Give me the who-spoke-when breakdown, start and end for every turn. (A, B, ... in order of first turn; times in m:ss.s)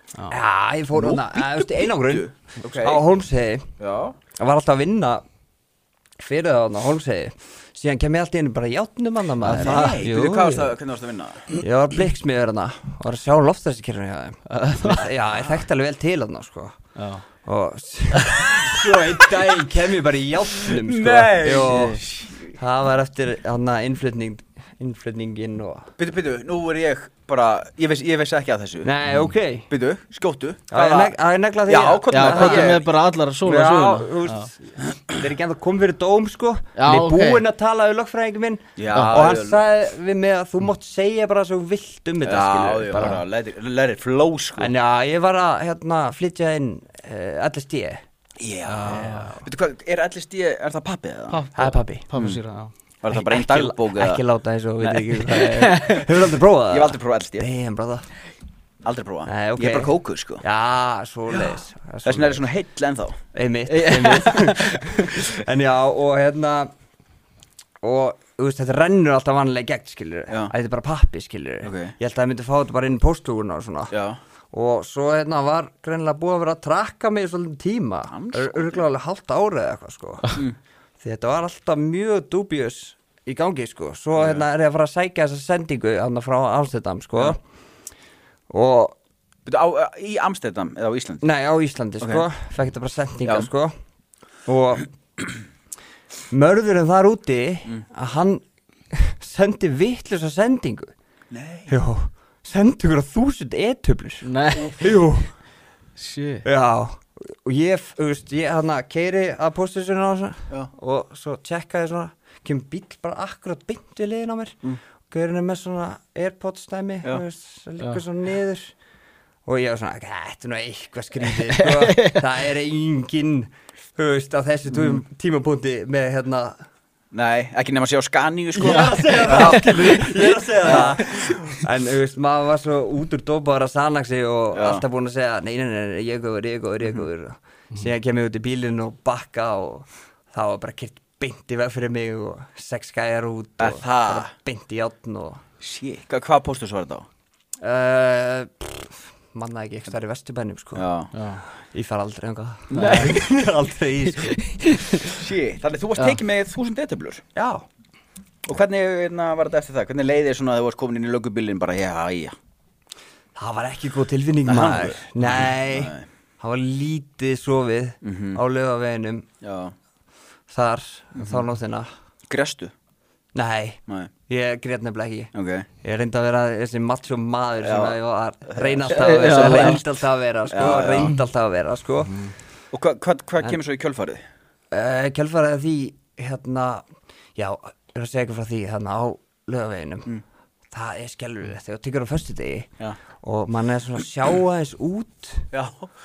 0:00.3-0:03.7 A
0:00.9-0:03.0 B
0:03.8-0:04.2 B
0:04.4-0:05.2 A
0:06.2-0:10.8 A
0:09.4-0:10.0 C
0:09.6-0:11.5 B
0:11.6-0:16.7 A
0:14.5-0:15.1 C
0:17.0-0:17.2 C
0:17.4-0:22.0 A
0:18.2-0:18.5 C
0:20.6-0:22.6 B
0:21.7-0:21.9 C
0:22.6-0:25.9 A
0:26.0-0:28.9 B
0:28.8-0:29.7 A
0:29.7-0:31.2 B
0:30.7-0:32.8 A
0:31.7-0:32.9 B
0:32.1-0:34.5 C
0:33.4-0:43.2 A
0:36.8-0:37.4 C
0:38.8-0:39.6 B
0:38.9-0:39.2 C
0:42.2-0:44.7 B
0:44.6-0:48.0 A
0:48.4-0:51.4 B
0:48.7-0:49.3 C
0:48.8-0:49.4 A
0:51.3-0:52.7 C
0:51.5-0:52.0 A
0:52.1-0:52.4 B
0:53.0-0:54.2 B
0:53.1-0:58.1 A
0:54.8-0:55.2 B
0:55.3-0:56.1 C
0:56.7-0:57.4 B
0:58.8-1:00.4 B
0:59.3-1:02.5 A
1:02.0-1:03.2 B
1:03.3-1:06.7 A
1:03.8-1:05.1 C
1:07.8-1:13.9 A
1:11.6-1:11.9 B
1:13.9-1:14.2 B
1:14.5-1:20.4 A
1:18.1-1:18.8 B
1:21.0-1:27.4 A
1:24.2-1:24.4 B
1:28.5-1:29.0 A
1:29.4-1:31.2 B
1:31.2-1:33.7 A
1:32.0-1:32.2 B
1:33.2-1:33.5 B
1:34.4-1:34.9 A
1:36.3-1:40.9 A
1:41.3-1:41.7 B
1:41.7-1:45.3 A
1:44.2-1:44.8 C
1:44.6-1:44.8 B
1:46.0-1:46.4 C
1:46.4-1:58.7 A
1:59.4-2:06.6 A
2:01.5-2:02.2 C
2:04.7-2:05.0 B
2:07.1-2:10.0 B
2:08.6-2:25.4 A
2:08.8-2:09.4 C
2:10.6-2:11.1 B
2:14.5-2:14.8 B
2:23.6-2:24.3 B
2:25.6-2:27.0 B
2:27.6-2:30.8 A
2:30.7-2:31.1 B
2:31.1-2:31.4 C
2:31.5-2:34.4 A
2:32.7-2:33.1 B
2:32.7-2:33.1 C
2:34.2-2:35.0 C
2:35.1-2:37.2 B
2:37.3-2:37.6 A
2:38.5-2:42.4 B
2:43.4-2:49.2 A
2:44.4-2:46.0 B
2:48.0-2:48.4 B
2:49.4-2:49.7 B
2:50.5-2:51.9 A
2:51.1-2:51.4 B
2:52.3-2:52.7 B
2:53.3-3:02.3 A
2:55.3-2:55.7 B
2:57.6-2:59.8 B
2:58.9-2:59.8 C
3:00.5-3:01.2 B
3:02.7-3:04.2 B
3:04.7-3:06.8 A
3:07.4-3:10.1 A
3:10.7-3:12.7 A
3:13.2-3:15.5 A
3:15.5-3:15.9 B